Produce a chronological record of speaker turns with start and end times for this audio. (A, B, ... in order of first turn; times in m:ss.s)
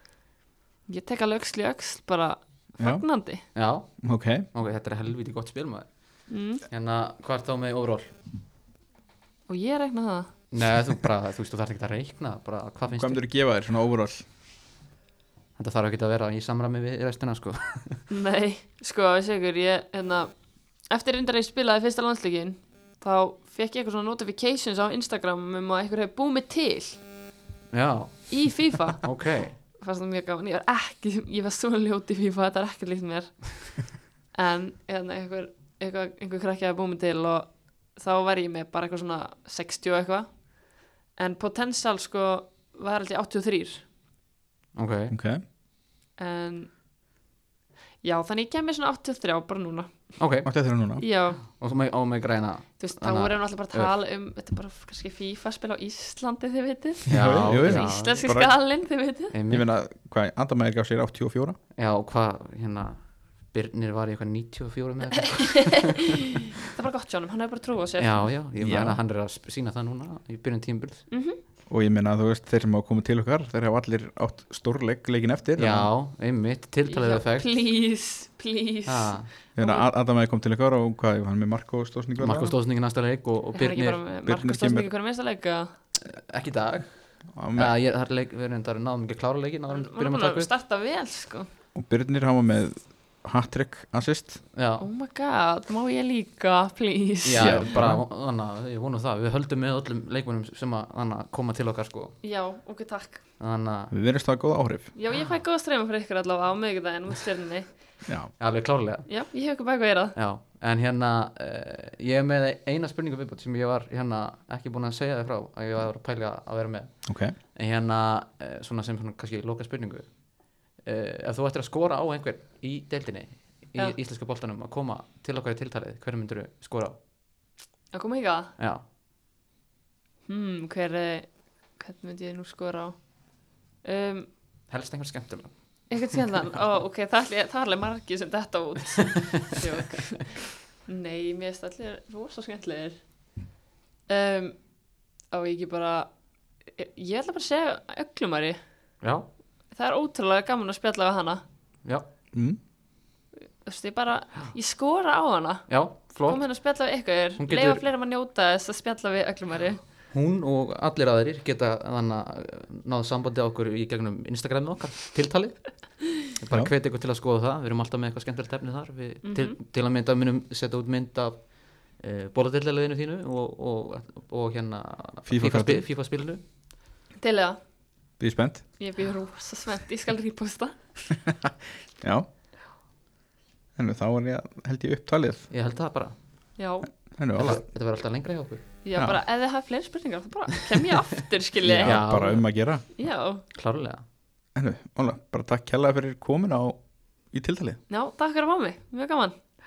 0:00.9-0:03.4 A
0:02.8-0:03.0 B
0:03.5-0:08.1 C
0:04.0-0:04.5 B
0:06.3-0:06.6 A
0:09.5-0:10.4 A
0:10.5-0:13.2 C
0:12.9-0:14.2 B
0:15.6-0:18.0 C
0:18.1-0:20.3 A
0:20.8-0:27.0 A
0:27.7-0:29.6 C
0:28.3-0:43.9 A
0:44.7-0:45.1 C
0:45.1-0:45.4 B
0:46.2-0:46.7 A
0:48.0-0:50.2 A
0:50.2-0:50.5 C
0:50.4-0:51.0 B
0:51.0-0:51.4 A
0:51.4-0:53.9 C
0:52.8-0:59.4 A
0:57.1-0:58.3 C
0:57.1-0:58.5 B
0:59.3-0:59.7 C
0:59.5-1:01.6 B
1:01.7-1:05.9 C
1:05.2-1:08.3 A
1:08.0-1:11.1 C
1:08.6-1:09.0 B
1:11.1-1:11.4 A
1:11.7-1:15.9 B
1:15.6-1:17.5 C
1:16.8-1:19.9 A
1:18.8-1:19.3 C
1:19.5-1:22.5 B
1:22.2-1:24.0 C
1:23.5-1:25.7 A
1:24.2-1:24.9 B
1:26.0-1:30.5 C
1:27.3-1:27.7 B
1:29.7-1:31.5 A
1:31.7-1:34.4 B
1:34.5-1:34.9 C
1:34.8-1:37.8 A
1:37.2-1:42.2 C
1:37.4-1:38.0 B
1:42.2-1:43.2 A
1:43.4-1:43.9 C
1:43.9-1:44.9 B
1:44.9-1:47.7 A
1:48.0-1:48.3 B
1:48.4-1:49.1 C
1:49.1-1:50.2 A
1:50.1-2:07.0 C
1:57.0-1:57.4 B
2:07.9-2:08.5 A
2:08.6-2:08.8 C
2:10.3-2:14.3 A
2:14.7-2:16.3 C
2:15.9-2:23.0 A
2:24.1-2:24.6 A
2:25.3-2:26.1 A
2:26.7-2:28.6 A
2:29.0-2:29.3 C
2:29.7-2:31.4 A
2:32.3-2:32.6 B
2:33.6-2:39.8 A
2:35.7-2:36.5 C
2:37.4-2:37.8 C
2:40.1-2:56.4 C
2:49.2-2:49.6 A
2:55.2-2:55.8 B
2:57.2-2:57.6 A
2:58.2-2:58.6 B
2:58.8-3:00.8 A
3:02.0-3:02.3 B
3:03.8-3:05.5 B
3:05.5-3:06.2 C
3:06.6-3:06.9 A
3:07.1-3:07.6 B
3:07.4-3:08.6 C
3:08.8-3:12.2 A
3:09.0-3:09.2 B
3:11.6-3:12.8 B
3:11.8-3:12.5 C
3:12.9-3:13.4 A
3:13.5-3:14.0 C
3:14.5-3:17.8 B
3:17.9-3:19.3 A